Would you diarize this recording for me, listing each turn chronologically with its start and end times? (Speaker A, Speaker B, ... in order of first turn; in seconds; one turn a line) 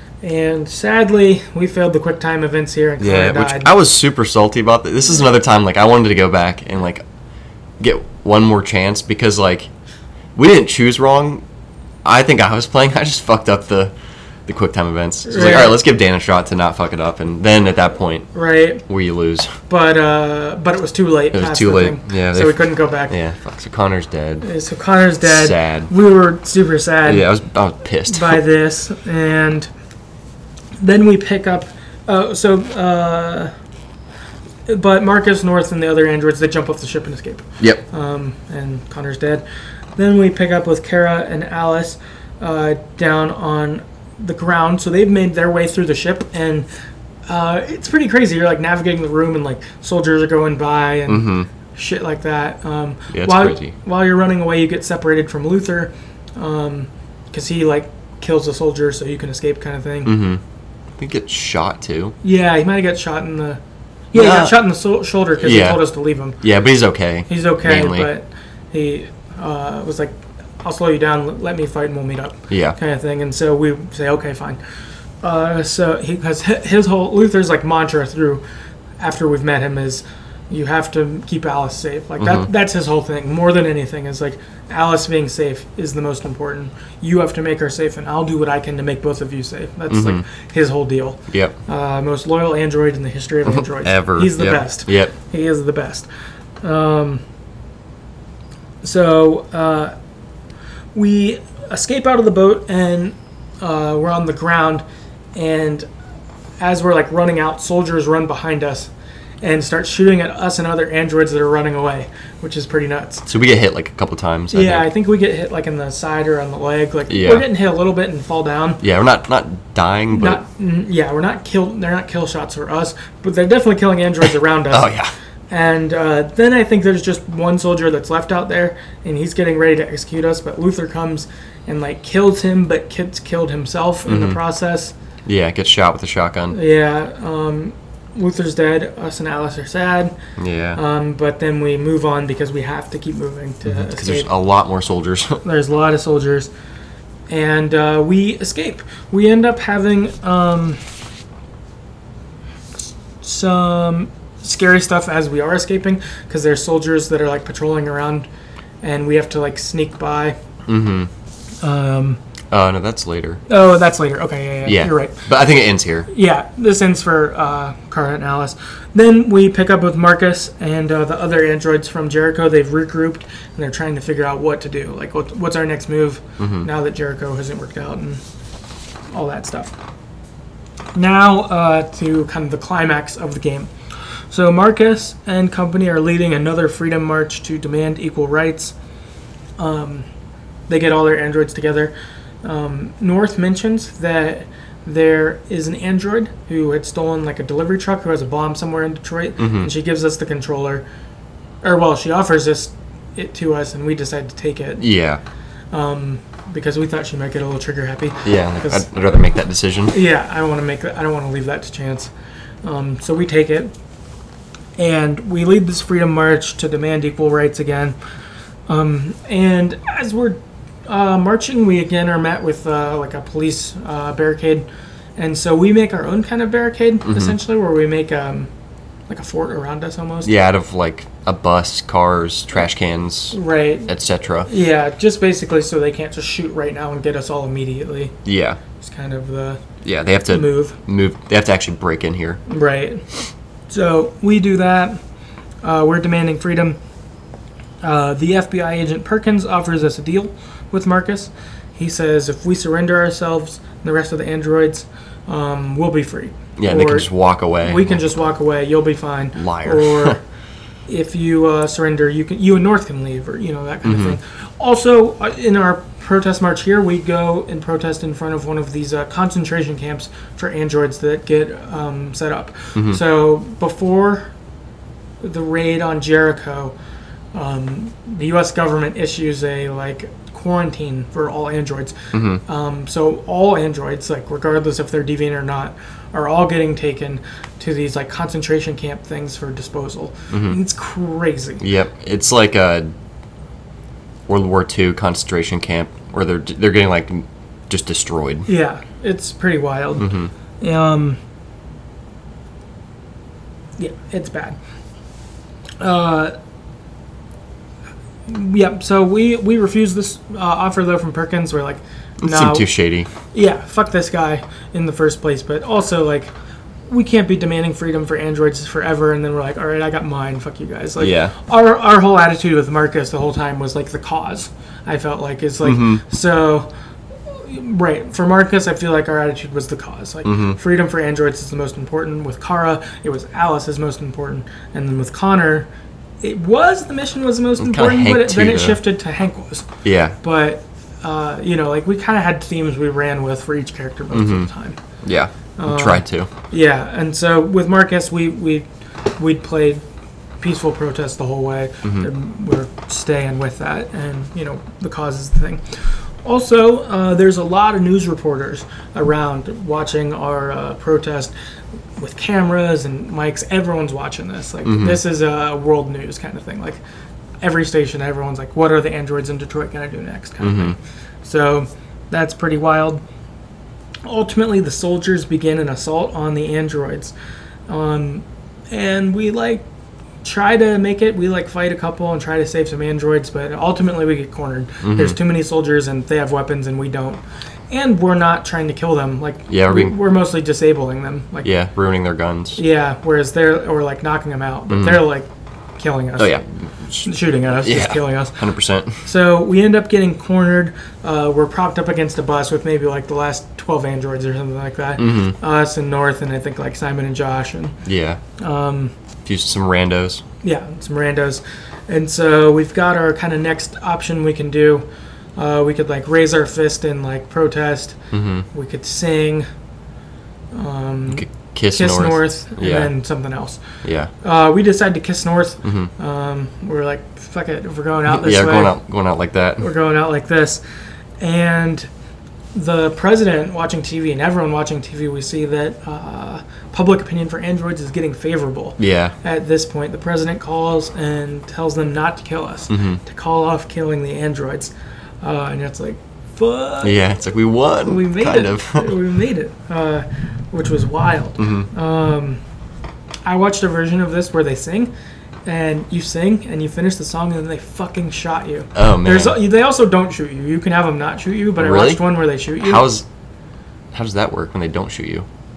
Speaker A: 0.2-3.7
Speaker B: 3.0-7.0
Speaker B: 7.8-9.7
Speaker B: 10.3-11.4
Speaker B: 12.1-13.9
Speaker B: 14.5-18.3
Speaker A: 15.2-15.8
Speaker A: 18.3-18.8
Speaker B: 18.9-19.5
Speaker A: 19.7-23.2
Speaker B: 21.3-24.5
Speaker A: 24.4-27.3
Speaker B: 25.2-25.9
Speaker B: 27.1-28.4
Speaker A: 28.1-29.7
Speaker A: 30.8-33.5
Speaker A: 34.7-39.5
Speaker A: 40.0-46.7
Speaker A: 47.3-60.2
Speaker B: 51.1-51.5
Speaker B: 53.1-53.7
Speaker B: 60.0-60.4
Speaker B: 61.0-62.1
Speaker A: 62.2-63.6
Speaker A: 64.1-66.4
Speaker B: 64.1-64.6
Speaker B: 65.4-65.8
Speaker B: 66.4-68.1
Speaker A: 67.3-74.6
Speaker B: 72.5-72.8
Speaker A: 75.2-78.4
Speaker A: 79.0-96.1
Speaker B: 82.2-82.5
Speaker B: 89.9-90.2
Speaker B: 91.3-91.5
Speaker B: 93.5-95.1
Speaker A: 96.6-97.2
Speaker A: 98.8-99.9
Speaker A: 100.9-104.8
Speaker A: 105.4-105.9
Speaker A: 106.6-108.9
Speaker A: 109.4-113.3
Speaker B: 113.3-114.9
Speaker A: 114.5-118.8
Speaker B: 117.1-117.5
Speaker B: 118.8-120.4
Speaker A: 120.1-124.9
Speaker B: 124.7-125.1
Speaker A: 125.5-134.9
Speaker B: 134.1-134.4
Speaker B: 135.3-136.6
Speaker A: 136.5-140.2
Speaker B: 140.4-140.8
Speaker A: 140.8-144.3
Speaker B: 143.7-145.4
Speaker A: 145.4-146.5
Speaker A: 147.3-150.8
Speaker A: 153.2-158.3
Speaker A: 158.8-160.4
Speaker B: 160.7-161.1
Speaker A: 161.6-162.2
Speaker B: 162.5-163.4
Speaker A: 163.5-165.2
Speaker B: 164.7-166.1
Speaker A: 166.1-178.2
Speaker B: 176.4-176.7
Speaker A: 179.1-179.7
Speaker A: 180.9-183.7
Speaker A: 184.3-188.7
Speaker A: 189.6-190.1
Speaker A: 190.7-191.9
Speaker A: 192.4-200.8
Speaker B: 199.4-199.7
Speaker A: 201.6-204.9
Speaker B: 204.8-205.2
Speaker A: 205.7-208.9
Speaker B: 208.2-210.0
Speaker A: 209.9-212.1
Speaker A: 212.6-213.7
Speaker A: 214.8-217.9
Speaker A: 218.7-228.5
Speaker A: 229.1-230.3
Speaker B: 230.2-234.5
Speaker A: 233.3-233.9
Speaker A: 234.4-238.2
Speaker B: 238.2-238.6
Speaker A: 238.8-239.6
Speaker B: 239.8-242.4
Speaker A: 240.3-240.8
Speaker A: 242.5-243.1
Speaker A: 243.7-245.0
Speaker A: 245.6-246.8
Speaker A: 247.8-257.1
Speaker B: 256.6-258.0
Speaker A: 257.6-260.2
Speaker B: 259.4-260.2
Speaker A: 260.9-274.3
Speaker B: 263.9-264.2
Speaker B: 272.8-273.0
Speaker A: 275.2-276.8
Speaker A: 277.3-291.6
Speaker B: 282.1-282.4
Speaker B: 290.3-290.6
Speaker B: 291.6-292.9
Speaker B: 294.3-298.5
Speaker A: 298.5-301.2
Speaker B: 300.0-300.3
Speaker A: 303.8-304.6
Speaker A: 305.8-306.3
Speaker A: 308.3-312.7
Speaker B: 312.2-313.1
Speaker A: 313.3-316.3
Speaker A: 316.9-326.7
Speaker B: 321.0-321.3
Speaker B: 325.6-326.0
Speaker A: 327.3-335.7
Speaker B: 330.2-330.6
Speaker A: 336.2-339.7
Speaker B: 337.6-338.8
Speaker B: 339.8-340.2
Speaker A: 340.2-344.8
Speaker B: 344.1-344.5
Speaker B: 345.0-346.3
Speaker A: 345.6-348.7
Speaker A: 349.2-349.8
Speaker A: 350.4-361.3
Speaker B: 351.8-352.1
Speaker A: 362.0-366.8
Speaker B: 364.6-365.0
Speaker A: 367.4-373.0
Speaker B: 370.4-370.8
Speaker A: 374.1-377.1
Speaker A: 377.7-379.6
Speaker A: 380.2-391.5
Speaker B: 384.8-385.2
Speaker B: 389.5-390.0
Speaker B: 391.4-392.6
Speaker A: 392.6-396.4
Speaker B: 394.7-395.1
Speaker B: 396.2-397.1
Speaker A: 397.0-398.4
Speaker B: 397.6-399.0
Speaker A: 399.0-407.8
Speaker B: 405.0-405.3
Speaker B: 407.9-408.2
Speaker A: 408.4-408.9
Speaker B: 409.2-410.2
Speaker A: 410.4-414.9
Speaker A: 415.4-418.0
Speaker B: 418.1-418.5
Speaker A: 418.5-419.5
Speaker A: 420.5-423.6
Speaker B: 421.1-422.9
Speaker B: 423.8-424.1
Speaker A: 424.2-428.8
Speaker B: 425.6-425.9
Speaker B: 428.1-429.7
Speaker A: 429.6-430.6
Speaker A: 431.2-431.9
Speaker A: 432.5-447.0
Speaker B: 438.8-439.1
Speaker B: 442.7-443.0
Speaker B: 446.8-448.9
Speaker A: 447.9-452.4
Speaker B: 451.4-451.7
Speaker A: 453.3-454.9
Speaker A: 455.5-462.9
Speaker B: 458.8-459.4
Speaker B: 461.6-463.1
Speaker B: 463.9-465.3